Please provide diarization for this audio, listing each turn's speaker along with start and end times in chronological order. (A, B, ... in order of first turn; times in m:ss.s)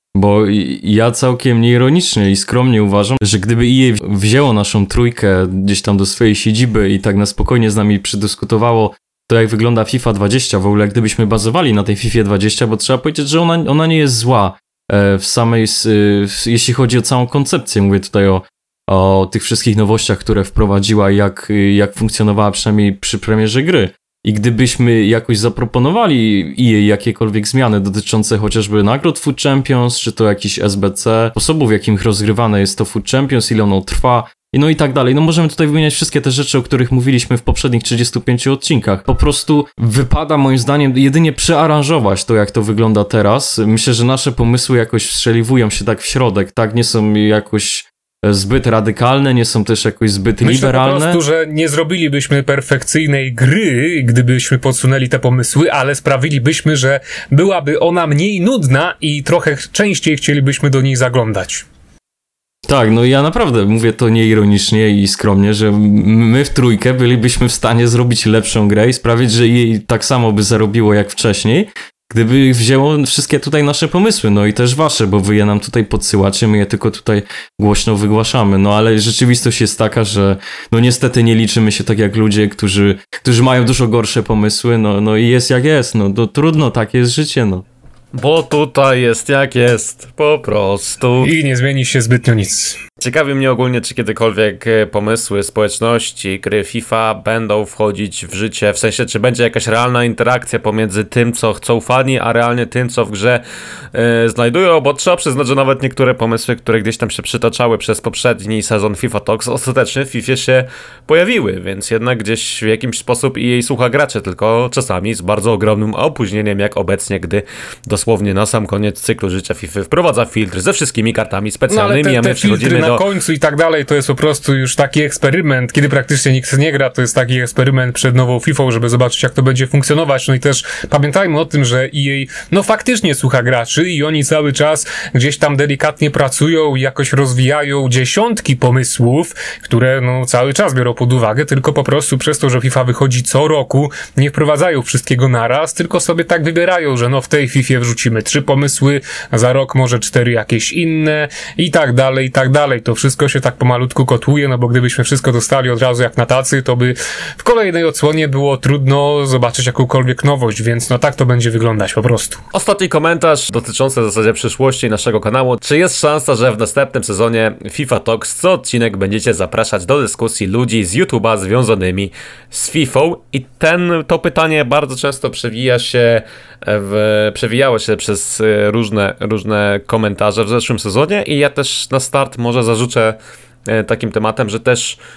0:00.2-0:51.2 A
0:50.4-1:01.6 B
1:02.7-1:27.6 A
1:28.1-1:31.3 C
1:31.2-1:32.8 B
1:33.0-1:43.4 C
1:43.9-2:03.0 C
2:01.7-2:42.4 B
2:42.5-3:05.0 C